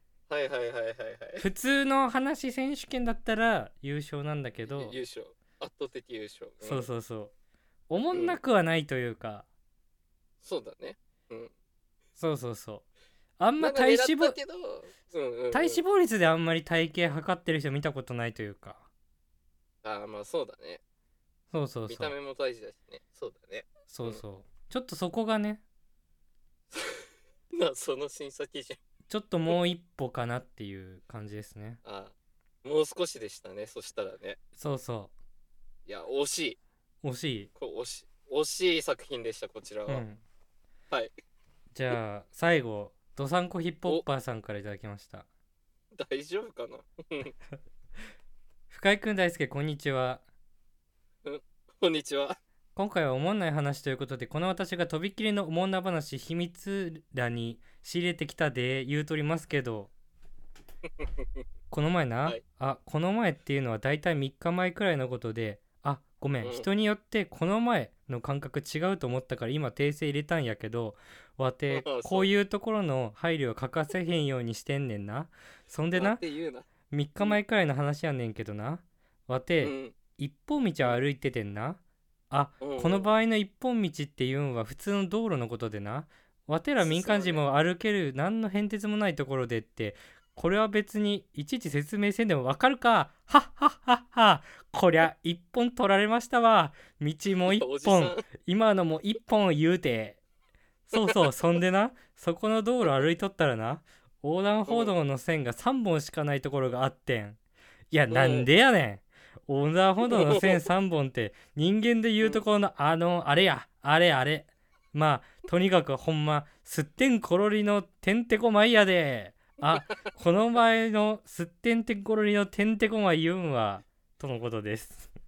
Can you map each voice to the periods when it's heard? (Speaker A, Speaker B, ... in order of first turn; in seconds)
Speaker A: 0.3-1.4, 4.7-6.9, 8.1-8.4, 10.4-11.5, 13.6-15.8, 19.8-20.8, 21.9-24.2, 26.7-28.8, 31.8-34.4, 35.9-36.6, 37.5-40.0, 45.9-47.3, 51.2-52.4, 61.0-61.4, 66.4-66.7, 71.7-72.3, 75.9-76.7, 79.6-80.0, 82.6-83.1, 86.8-87.4, 97.4-98.2, 104.7-104.9, 108.1-108.5, 110.1-110.6
Speaker B: 1.4-5.0, 6.6-7.3, 7.9-9.5, 12.2-12.9, 13.4-14.4, 15.5-18.9, 21.5-22.1, 23.9-25.6, 29.1-31.8, 34.6-35.1, 37.0-37.5, 39.9-40.2, 41.7-45.3, 48.7-50.2, 52.8-59.9, 61.7-76.2, 76.9-100.2, 100.9-107.4, 107.9-125.1